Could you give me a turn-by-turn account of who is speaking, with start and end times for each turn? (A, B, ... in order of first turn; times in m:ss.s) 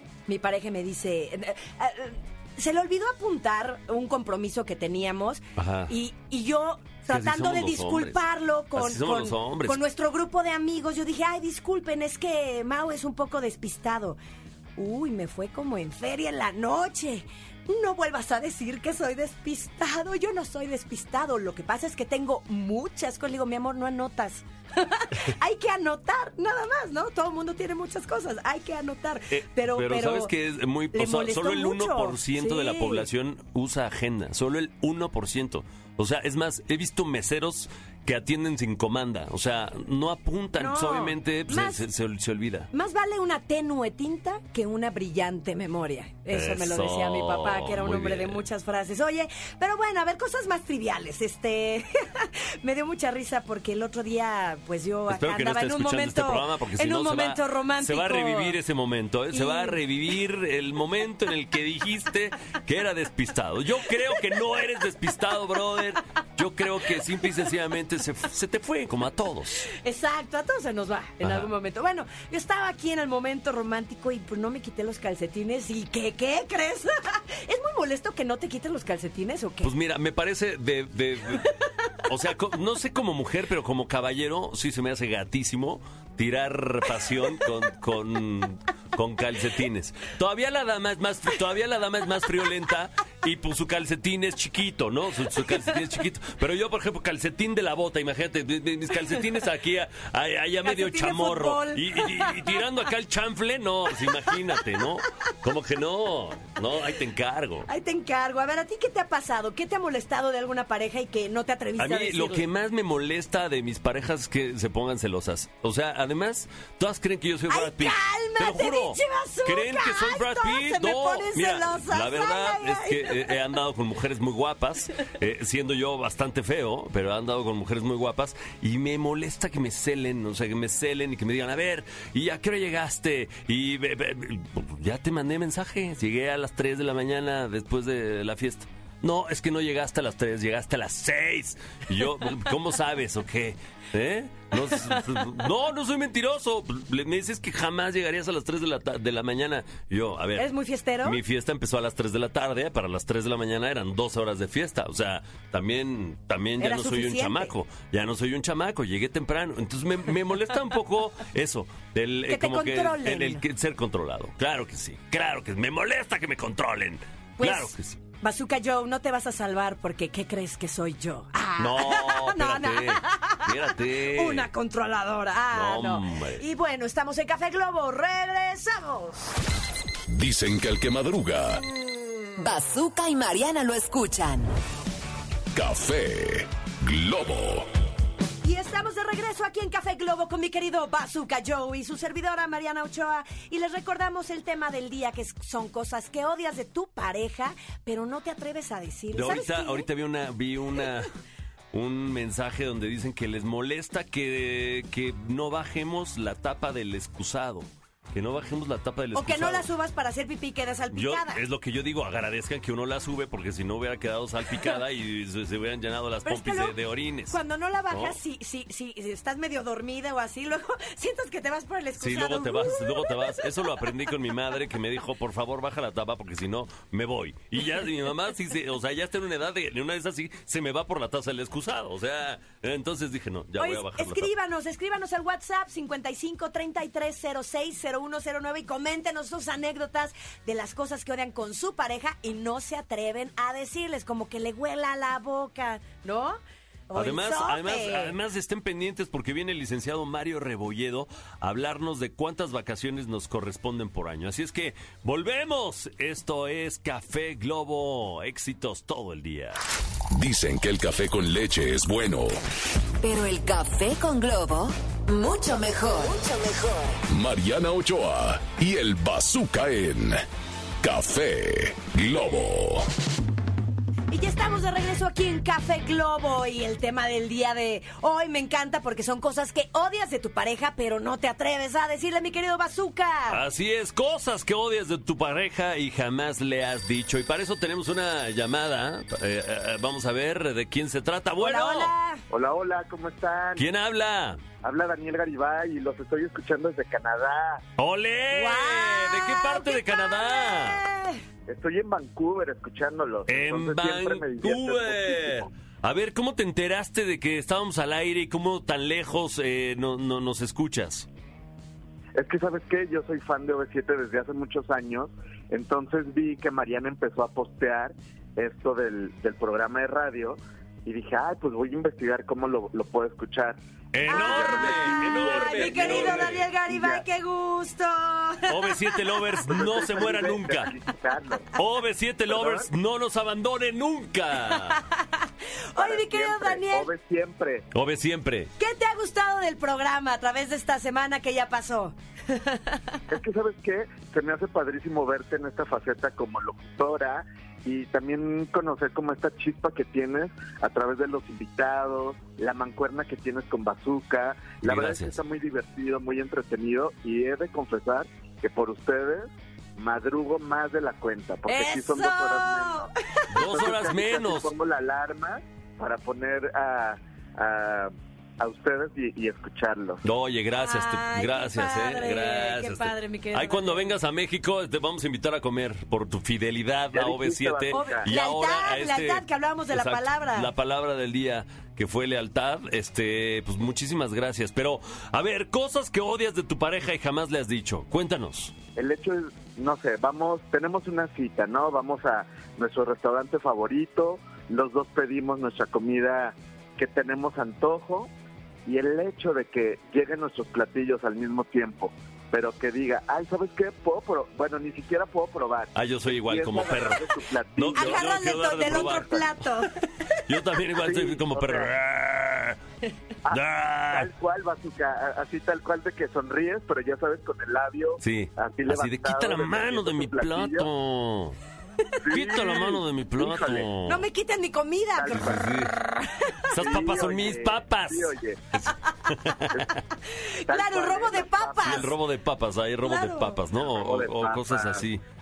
0:00.3-0:14.2 A
0:05.6-0:05.9 B
0:07.1-0:08.2 B
0:08.7-0:09.8 B
0:14.8-0:30.3 A
0:29.3-0:42.7 B
0:30.9-0:33.1 A
0:40.6-0:41.8 A
0:42.7-0:58.6 A
0:46.3-0:48.4 B
0:55.1-1:09.7 B
0:59.3-0:59.8 A
1:09.7-1:19.7 A
1:11.2-1:11.5 B
1:19.6-1:47.7 B
1:40.6-1:42.6 A
1:47.6-1:52.4 A
1:51.8-2:30.5 B
1:57.5-2:03.3 A
2:30.3-2:31.2 A
2:31.0-2:48.0 B
2:36.6-2:37.5 A
2:42.3-2:43.4 A
2:47.4-2:59.3 A
2:51.6-2:54.5 B
2:55.5-2:56.4 B
3:00.1-3:01.6 C
3:02.4-3:04.5 D
3:05.5-3:07.7 C
3:08.4-3:19.8 A
3:19.1-3:21.1 B
3:21.7-3:29.7 B
3:29.1-3:31.4 A
3:30.9-3:37.4 B
3:36.2-3:36.8 A
3:37.3-3:44.1 A
3:37.9-3:38.2 B
3:42.0-3:54.3 B
3:53.6-4:08.2 A
4:06.9-4:19.6 B
4:20.1-4:22.4 C
4:23.0-4:26.9 D
4:27.1-4:30.2 C
4:30.8-4:32.8 C
4:34.1-4:43.4 A
4:43.3-4:51.9 B
4:51.4-4:52.2 A
4:52.3-4:53.7 E
4:53.6-4:54.4 B
4:54.6-4:57.6 E
4:57.8-5:00.8 B
4:58.3-5:01.2 A
5:01.5-5:05.5 E
5:03.3-5:11.1 B
5:12.2-5:27.0 E
5:23.9-5:26.4 B
5:24.1-5:30.2 A
5:28.5-5:30.7 B
5:29.4-5:31.5 E
5:31.5-5:34.8 B
5:32.3-5:32.7 E
5:34.5-5:36.9 A
5:35.8-5:37.6 E
5:37.7-5:38.5 B
5:38.6-5:43.0 A
5:43.1-6:02.8 E
5:54.6-5:55.2 B
6:01.5-6:03.6 A
6:03.3-6:04.5 B
6:03.4-6:10.0 E
6:10.0-6:28.5 B
6:10.5-6:13.9 A
6:16.9-6:18.1 E
6:17.7-6:20.5 A
6:28.8-6:38.1 E
6:38.6-6:49.1 E
6:45.7-6:49.2 B
6:47.7-6:50.1 A
6:50.3-6:52.6 B
6:50.8-6:51.7 E
6:53.2-7:00.7 E
6:53.3-6:54.1 B
6:58.0-7:01.4 B
7:02.0-7:03.7 E
7:02.1-7:04.0 B
7:03.8-7:05.4 A
7:04.9-7:05.5 E
7:05.1-7:05.7 B
7:06.0-7:06.5 A
7:06.5-7:09.6 B
7:06.5-7:08.4 E
7:10.1-7:12.0 A
7:10.5-7:11.9 E
7:11.6-7:15.0 B
7:12.8-7:13.4 A
7:13.6-7:14.8 E